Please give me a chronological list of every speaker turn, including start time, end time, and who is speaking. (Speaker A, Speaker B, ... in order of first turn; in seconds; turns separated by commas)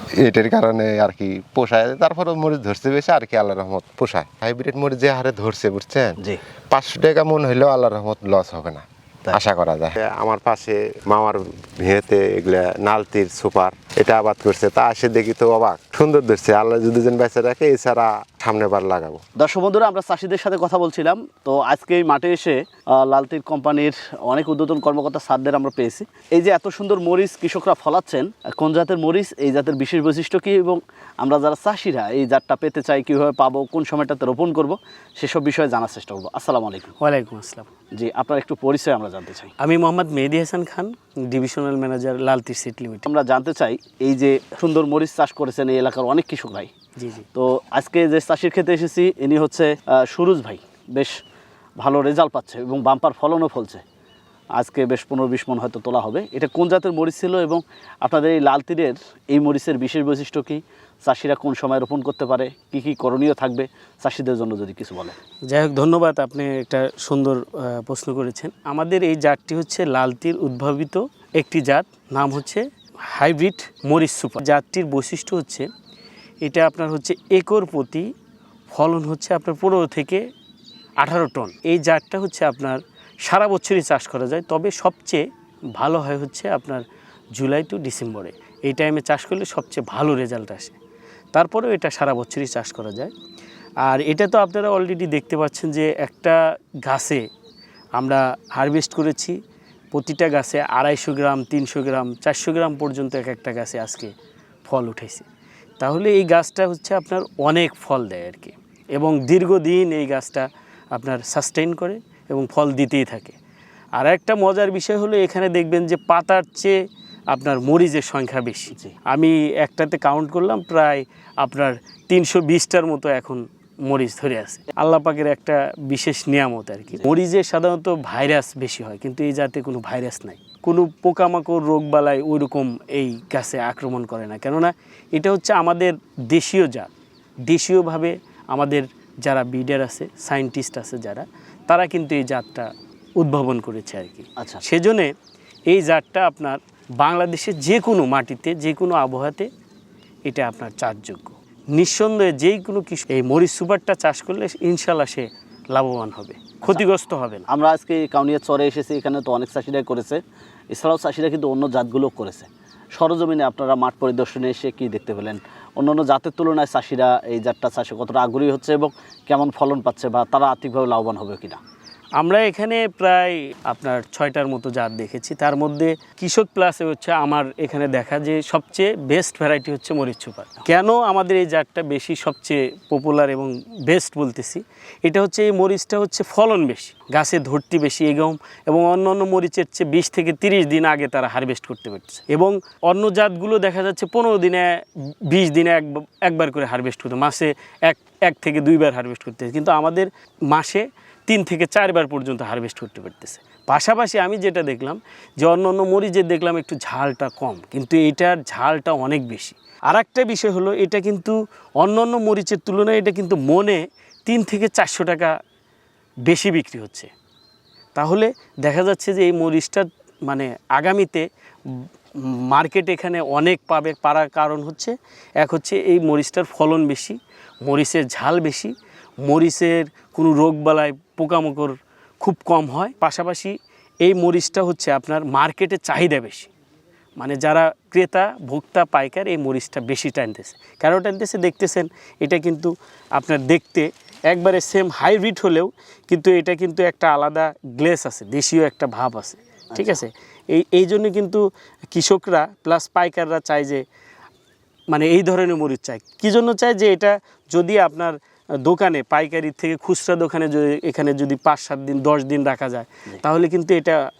Speaker A: 0.2-6.2, Speaker A: 6.7-19.2, Speaker B: 19.4-37.0, Speaker C: 37.0-37.7, Speaker B: 38.0-39.5, Speaker C: 39.6-43.1, Speaker B: 43.0-46.7, Speaker C: 47.0-47.2, Speaker B: 47.3-51.1, Speaker B: 51.8-53.8, Speaker B: 54.5-65.2, Speaker C: 65.5-72.6, Speaker C: 73.2-75.7, Speaker C: 76.4-78.0, Speaker C: 78.7-80.2, Speaker C: 81.0-85.2, Speaker C: 85.8-86.8, Speaker C: 87.3-90.8, Speaker C: 91.3-93.1, Speaker C: 93.8-97.2, Speaker C: 98.0-99.3, Speaker C: 99.9-104.1, Speaker C: 104.7-105.2, Speaker C: 105.8-113.3, Speaker C: 114.0-116.8, Speaker C: 117.3-136.9, Speaker C: 137.5-142.7, Speaker C: 143.2-145.1, Speaker B: 144.4-144.6, Speaker C: 145.7-149.5, Speaker C: 150.3-157.4, Speaker B: 157.5-171.6, Speaker C: 172.2-194.7, Speaker C: 195.3-215.3, Speaker C: 216.2-217.1, Speaker C: 217.9-221.2, Speaker C: 222.5-228.7, Speaker C: 229.2-236.5, Speaker C: 237.2-253.8, Speaker B: 249.7-250.0, Speaker C: 254.9-264.0